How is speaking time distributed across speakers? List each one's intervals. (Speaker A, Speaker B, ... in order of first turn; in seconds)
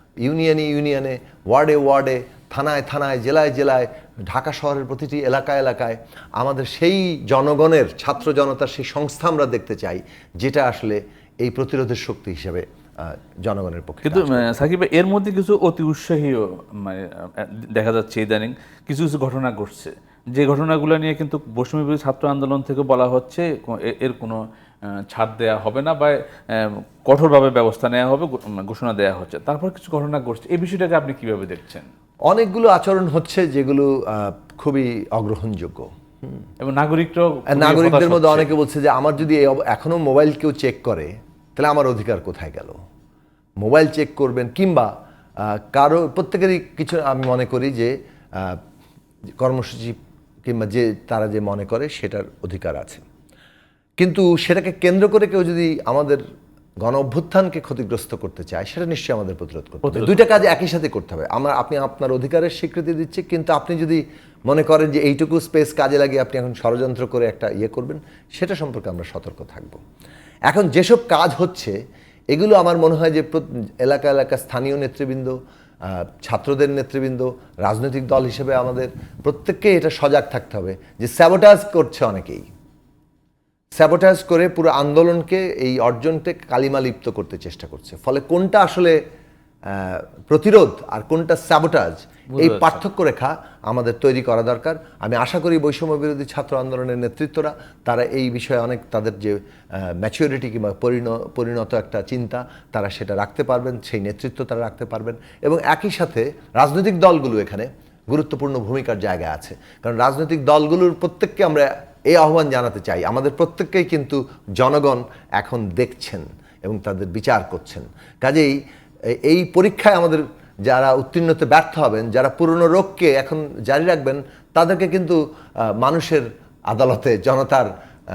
Speaker A: 0.2-14.5, 32.3-36.4, 37.5-42.8, 43.6-48.6, 49.4-53.0, 54.0-56.2, 56.8-69.8, 70.5-71.8, 72.3-82.5, 83.8-89.0, 89.7-118.6, 119.2-125.2, 125.8-127.7
Speaker B: 14.0-24.4, 25.1-31.9, 36.6-38.5, 59.8-60.2, 92.3-92.8